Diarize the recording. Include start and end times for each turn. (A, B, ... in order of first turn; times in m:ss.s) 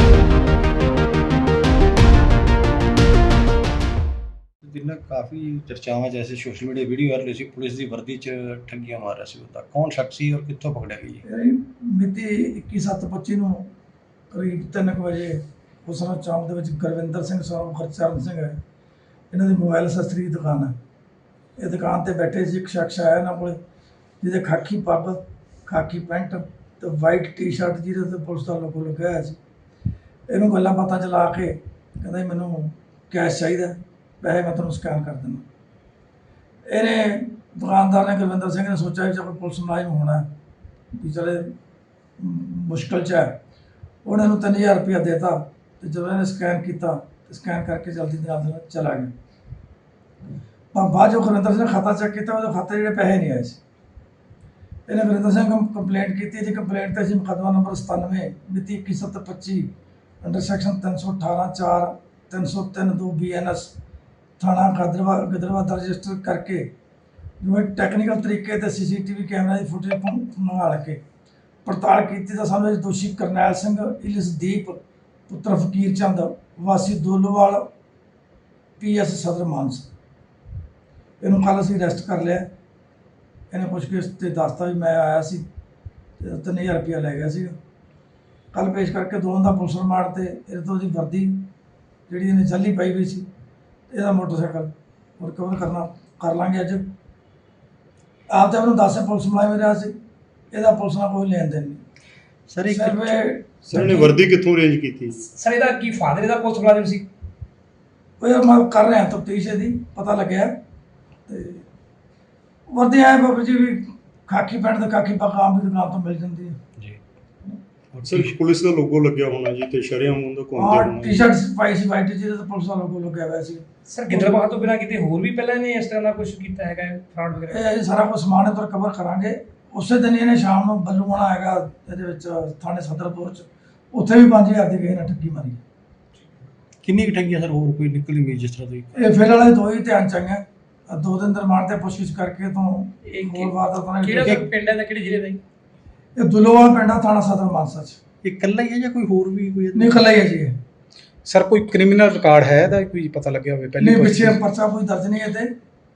0:04.6-0:11.2 A
0:11.2-0:13.7 B
0:14.3-0:18.6 B
0:19.3-0:20.8 B
0:21.6-0:23.6 B
0:24.2-0:29.4 B
0:30.3-0:35.4 B
0:36.7-0:40.3 B
0:40.9-0:41.5 B
0:42.2-0:43.4 B
0:44.0-0:49.1 B
0:50.7-0:53.6 B
0:54.9-0:59.7 B
1:00.2-1:03.7 B
1:04.4-1:06.7 B
1:07.4-1:11.0 B
1:11.6-1:17.7 B
1:18.8-1:19.9 B
1:21.2-1:22.5 B
1:23.5-1:25.5 B
1:26.2-1:27.6 B
1:28.5-1:31.5 B
1:32.1-1:33.3 B
1:33.9-1:36.8 B
1:38.3-1:39.9 B
1:40.5-1:41.8 B
1:42.5-1:43.2 A
1:42.7-1:44.0 B
1:43.7-1:45.2 C
1:45.2-1:47.1 D
1:48.2-1:50.6 B
1:51.3-1:51.7 B
1:52.7-1:56.6 B
1:57.9-1:58.4 A
1:58.0-2:01.2 C
2:00.6-2:04.4 B
2:03.9-2:07.6 D
2:07.5-2:15.6 B
2:16.8-2:18.9 A
2:18.9-2:24.4 B
2:23.1-2:25.4 D
2:24.2-2:24.5 A
2:26.2-2:28.0 B
2:28.2-2:30.1 A
2:29.8-2:30.6 B
2:31.3-2:34.4 E
2:33.8-2:35.5 B